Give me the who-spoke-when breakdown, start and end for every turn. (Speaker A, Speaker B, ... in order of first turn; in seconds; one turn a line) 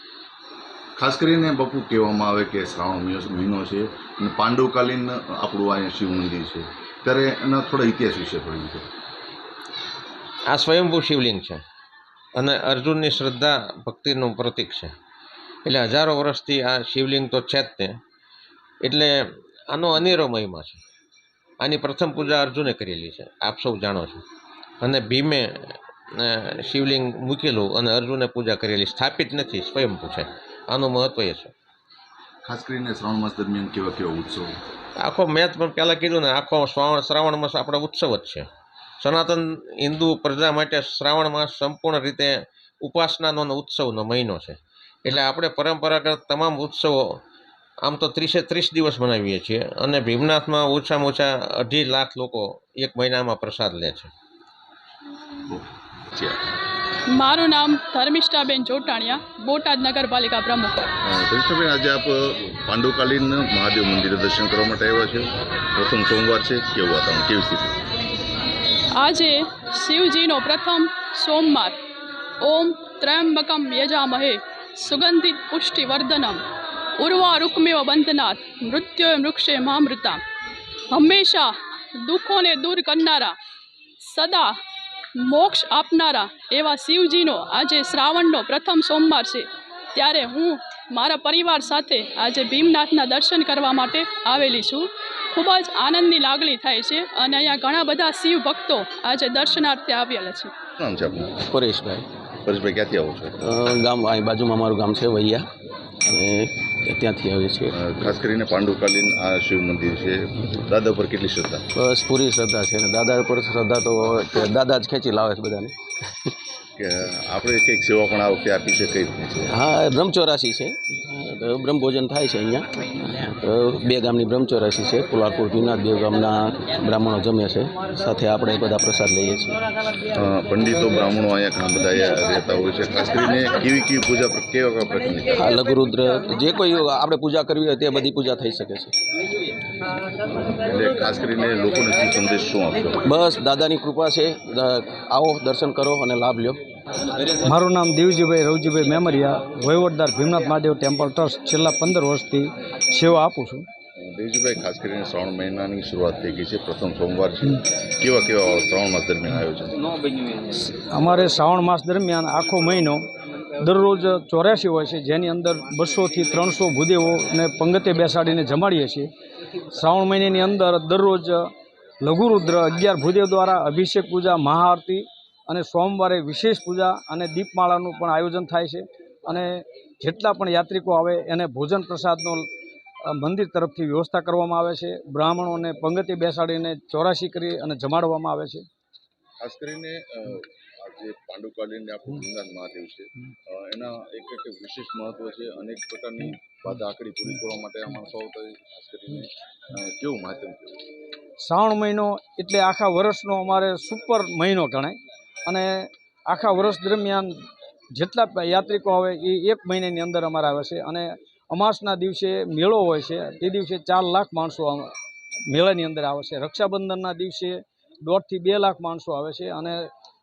Speaker A: 1.0-8.9
Speaker B: 10.5-11.6
Speaker B: 12.4-14.9
Speaker B: 15.7-18.0
Speaker B: 18.8-19.1
Speaker B: 19.7-20.8
Speaker B: 21.6-24.2
Speaker B: 24.8-31.5
Speaker A: 32.4-34.6
Speaker B: 35.0-38.5
Speaker B: 39.0-47.2
Speaker B: 47.8-54.1
Speaker A: 55.5-56.4
Speaker C: 57.1-60.9
Speaker A: 61.0-67.8
Speaker C: 69.0-71.8
Speaker C: 72.4-76.4
Speaker C: 77.0-80.2
Speaker C: 80.9-83.3
Speaker C: 84.0-84.6
Speaker C: 85.2-100.5
Speaker A: 100.8-101.4
Speaker D: 101.5-102.0
Speaker A: 102.4-103.4
Speaker D: 103.4-105.5
Speaker D: 106.1-108.1
Speaker A: 107.7-111.6
Speaker D: 111.8-116.3
Speaker A: 116.8-119.5
Speaker D: 119.5-129.6
Speaker A: 130.1-135.3
Speaker D: 135.3-138.9
Speaker A: 140.5-143.0
Speaker D: 143.1-146.6
Speaker E: 147.4-153.7
Speaker A: 154.0-159.8
Speaker E: 160.5-163.0
Speaker E: 163.6-169.1
Speaker E: 169.7-182.5
Speaker E: 183.0-188.7
Speaker A: 189.4-200.8
Speaker E: 201.4-214.9
Speaker E: 215.5-219.9